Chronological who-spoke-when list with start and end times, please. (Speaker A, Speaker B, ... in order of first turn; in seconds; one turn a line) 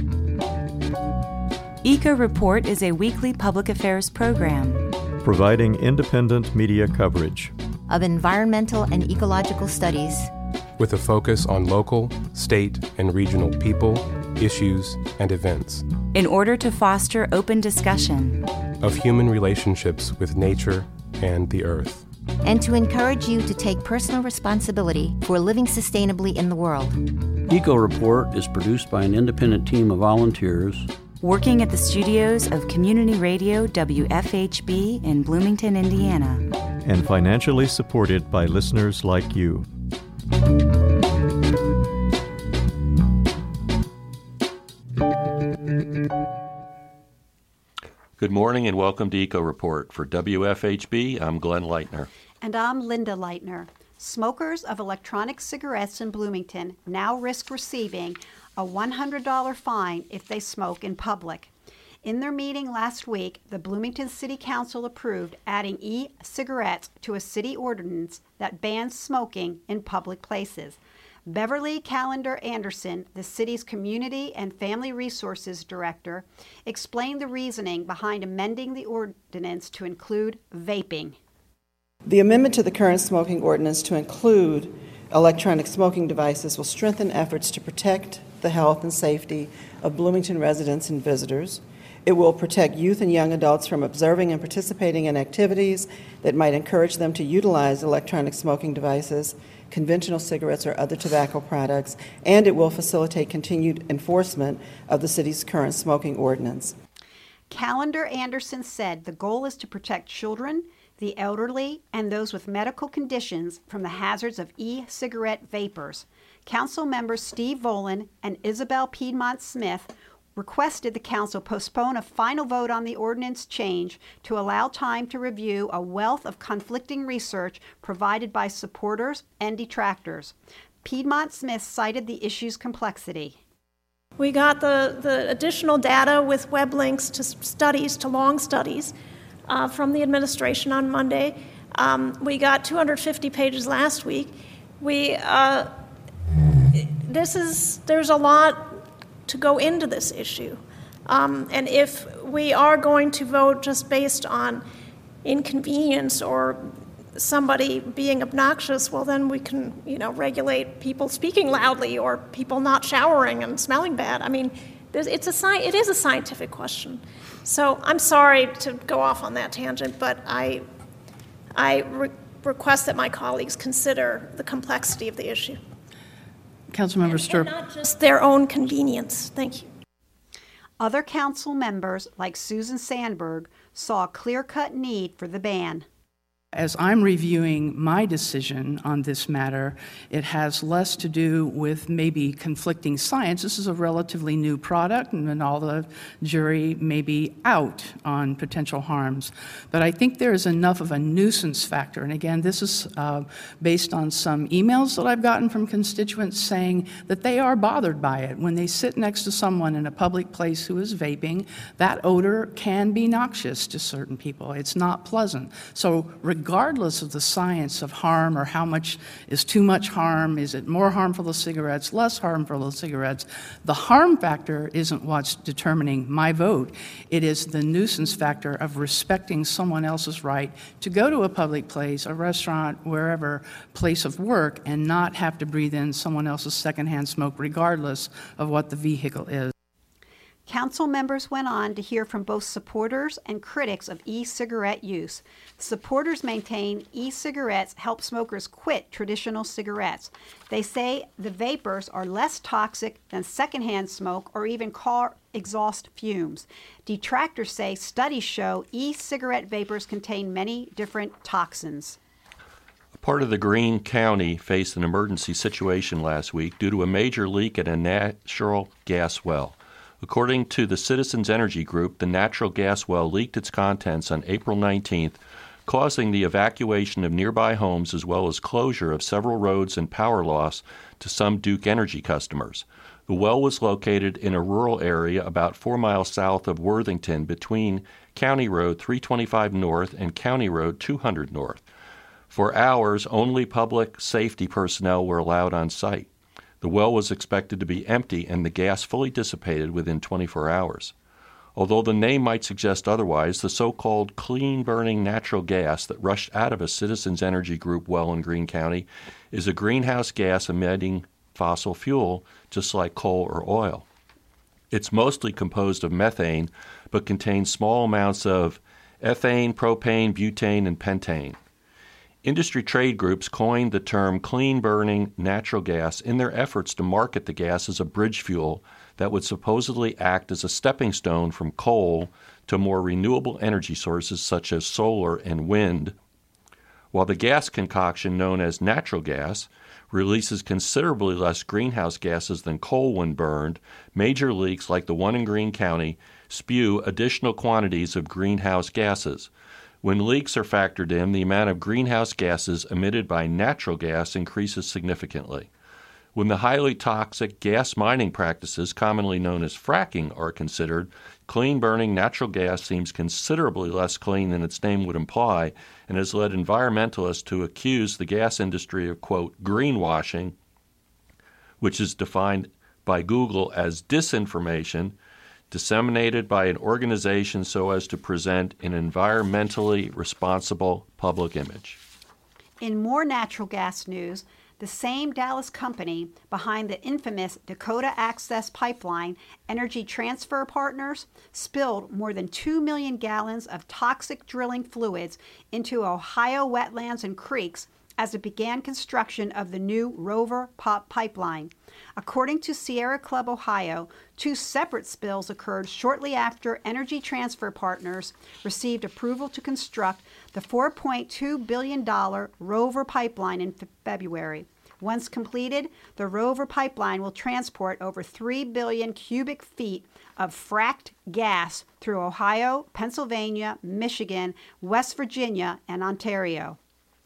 Speaker A: 1.8-4.9
Speaker B: 5.2-7.5
Speaker C: 7.9-10.3
Speaker D: 10.8-15.8
Speaker A: 16.1-18.4
Speaker D: 18.8-22.0
Speaker C: 22.4-27.0
Speaker E: 27.5-30.9
Speaker A: 31.2-36.5
Speaker B: 36.8-39.7
Speaker F: 48.2-52.1
Speaker G: 52.4-61.5
Speaker G: 62.0-81.2
Speaker H: 82.0-106.8
Speaker G: 107.5-133.4
Speaker I: 134.2-138.9
Speaker I: 139.5-145.7
Speaker I: 146.7-154.6
Speaker I: 155.2-170.7
Speaker I: 171.5-175.6
Speaker J: 176.7-177.5
Speaker I: 177.0-179.7
Speaker G: 180.8-185.8
Speaker J: 186.5-239.5
Speaker G: 240.5-262.0
Speaker F: 263.0-291.6
Speaker F: 292.3-296.1
Speaker F: 296.6-300.9
Speaker F: 301.6-313.9
Speaker F: 314.7-321.4
Speaker F: 322.2-335.9
Speaker F: 336.9-349.3
Speaker F: 349.8-355.5
Speaker F: 356.1-370.3
Speaker F: 371.6-374.9
Speaker F: 375.5-381.8
Speaker G: 382.6-426.6